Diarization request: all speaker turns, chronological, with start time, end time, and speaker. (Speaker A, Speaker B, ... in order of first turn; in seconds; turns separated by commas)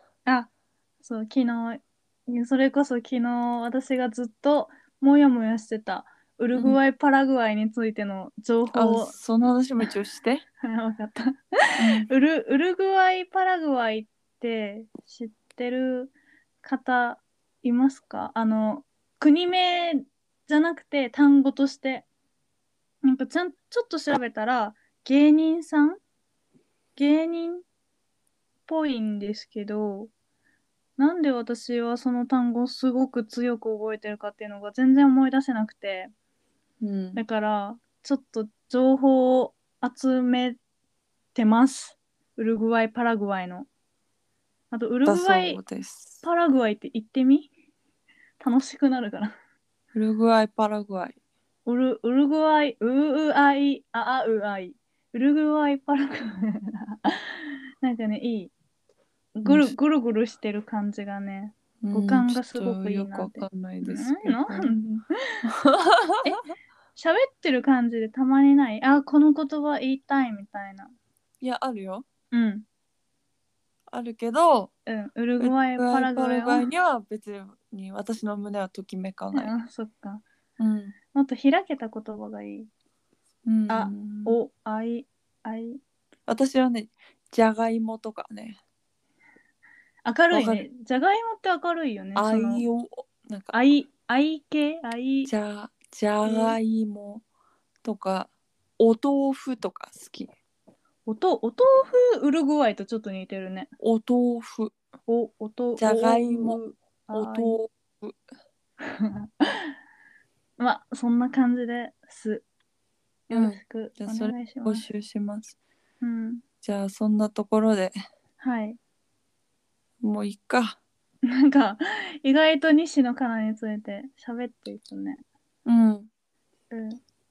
Speaker A: 1.0-9.1, Speaker B: 6.5-6.8, Speaker B: 8.7-10.4, Speaker A: 10.6-11.4, Speaker B: 11.8-12.1, Speaker A: 12.0-22.1, Speaker A: 23.0-26.0, Speaker A: 26.9-27.6, Speaker A: 28.7-30.1, Speaker A: 31.0-36.1, Speaker B: 36.8-37.2, Speaker A: 37.1-40.6, Speaker A: 41.3-43.7, Speaker A: 44.7-45.6, Speaker B: 45.0-46.2, Speaker A: 46.2-47.5, Speaker A: 48.4-49.3, Speaker B: 49.9-51.1, Speaker A: 51.6-58.5, Speaker A: 59.4-65.3, Speaker B: 59.4-59.7, Speaker B: 61.8-64.9, Speaker B: 65.5-66.3, Speaker A: 67.0-70.9, Speaker B: 71.4-72.1, Speaker A: 72.3-72.6, Speaker B: 73.9-74.7, Speaker A: 74.9-76.7, Speaker B: 75.4-79.5, Speaker A: 79.3-80.2, Speaker B: 80.6-80.9, Speaker A: 81.1-82.7, Speaker B: 83.5-84.4, Speaker A: 83.7-85.8, Speaker B: 86.3-88.6, Speaker A: 90.0-92.6, Speaker B: 90.3-90.6, Speaker B: 92.2-93.5, Speaker A: 93.5-95.3, Speaker B: 95.2-97.2, Speaker A: 96.2-96.6, Speaker B: 97.8-100.3, Speaker A: 101.0-103.7, Speaker B: 103.8-104.7, Speaker A: 105.1-107.6, Speaker B: 105.8-106.6, Speaker B: 107.1-108.2, Speaker A: 108.8-109.7, Speaker A: 110.6-112.4, Speaker A: 113.3-114.8, Speaker B: 113.3-115.5, Speaker A: 116.0-116.4, Speaker B: 116.6-117.9, Speaker A: 118.4-118.8, Speaker B: 120.0-120.8, Speaker A: 121.3-125.2, Speaker B: 125.7-126.1, Speaker A: 126.7-127.0